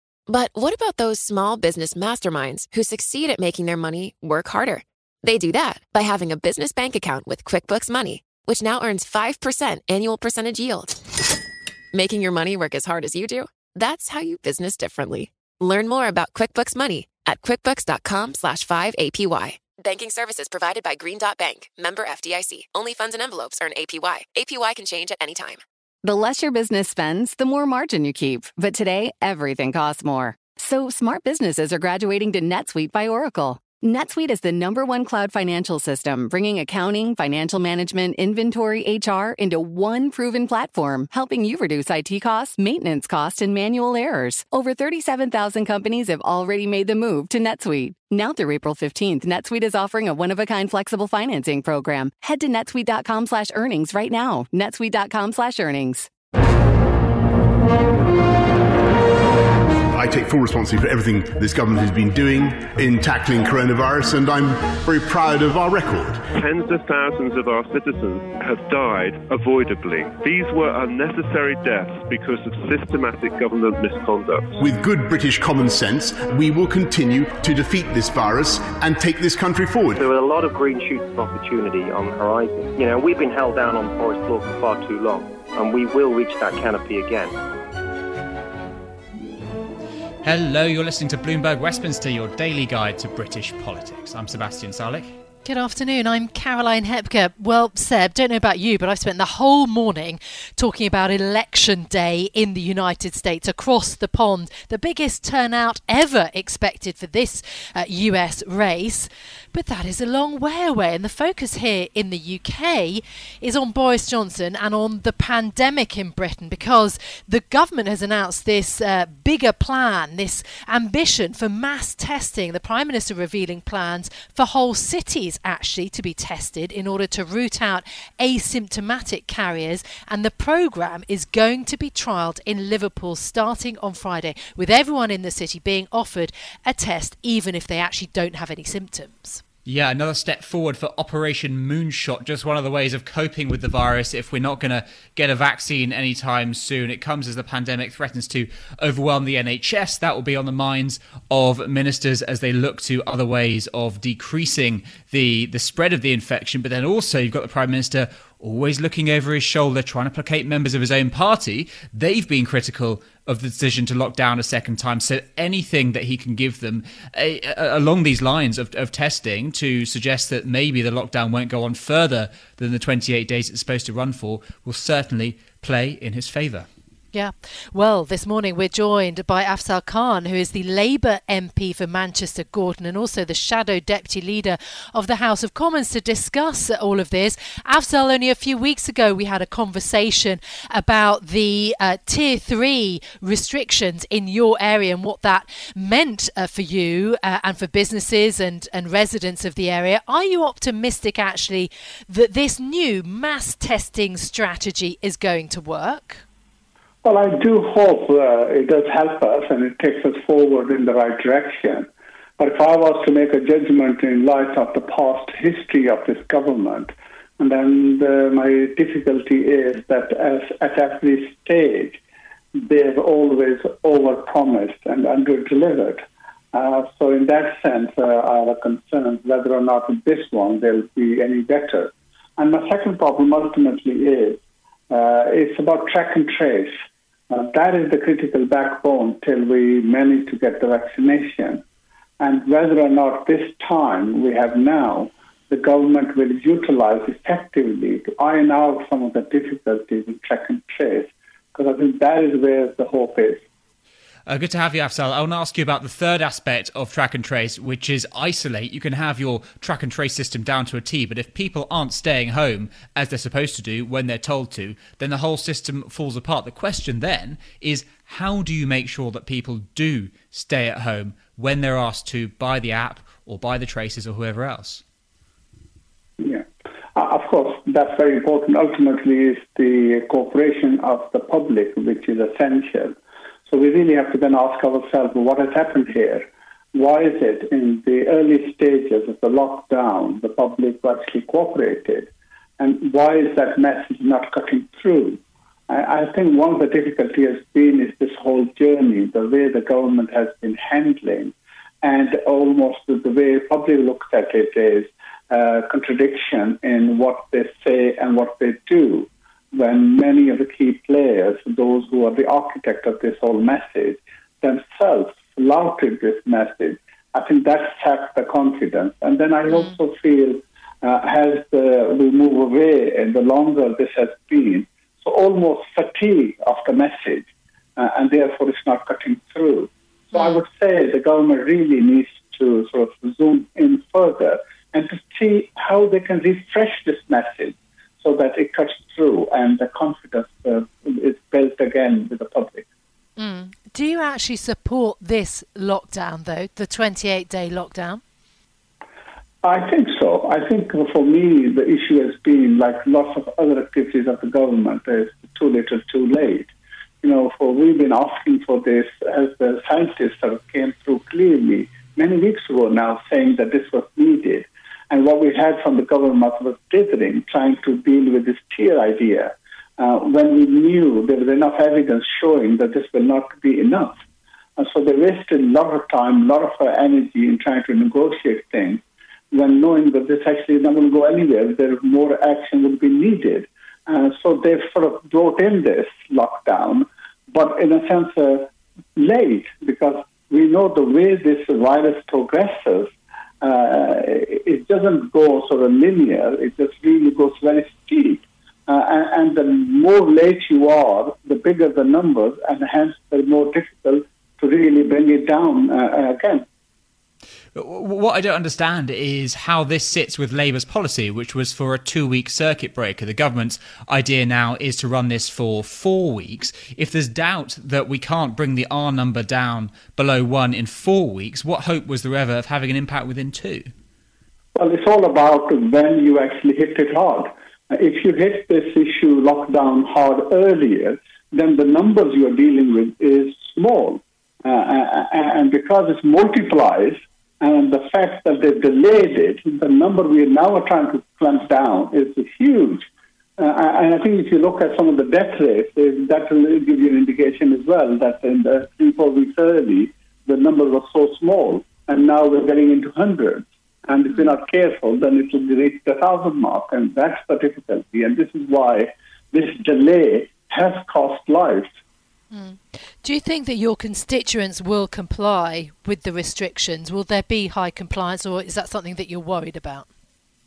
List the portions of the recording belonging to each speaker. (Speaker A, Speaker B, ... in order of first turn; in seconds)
Speaker A: 0.3-11.0, 11.9-25.6
Speaker B: 26.0-56.1
Speaker C: 59.9-66.4, 74.5-80.0
Speaker D: 66.5-74.5
Speaker E: 80.0-87.3
Speaker F: 90.2-95.1, 139.6-176.7, 254.3-274.8, 407.5-423.7
Speaker G: 95.4-139.4, 177.1-206.2, 330.1-330.4, 343.2-348.0, 462.3-469.9
Speaker H: 207.0-222.0, 222.5-236.8, 237.3-241.6, 242.2-253.4, 276.2-342.6, 349.4-374.0, 374.6-406.4, 424.5-461.8